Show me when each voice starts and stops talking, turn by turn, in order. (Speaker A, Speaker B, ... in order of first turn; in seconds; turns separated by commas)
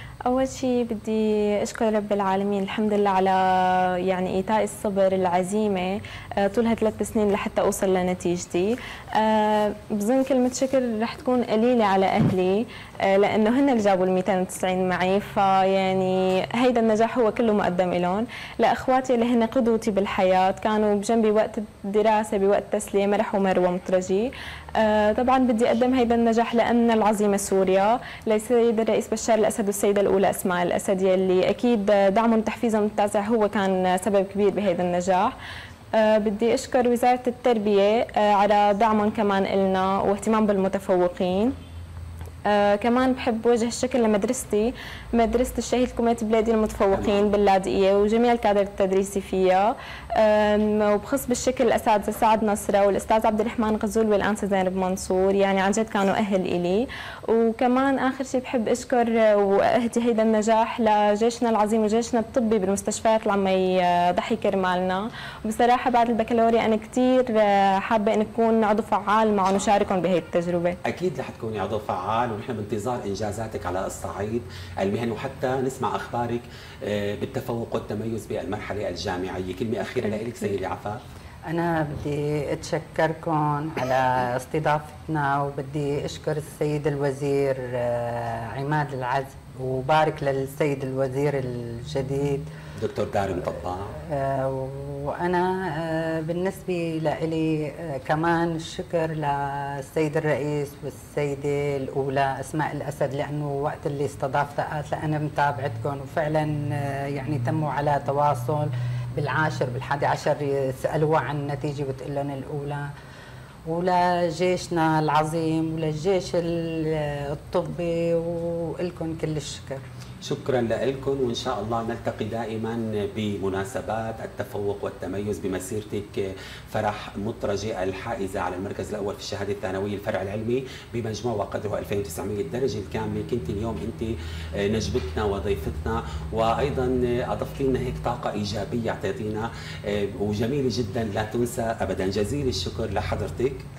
Speaker A: 0.3-35.4, Speaker A: 36.0-41.6, Speaker A: 42.5-70.8, Speaker B: 46.9-47.3, Speaker B: 70.8-81.0, Speaker A: 80.2-80.4, Speaker C: 81.5-92.5, Speaker B: 92.8-94.0, Speaker C: 94.0-112.9, Speaker C: 113.7-119.8, Speaker B: 120.2-143.7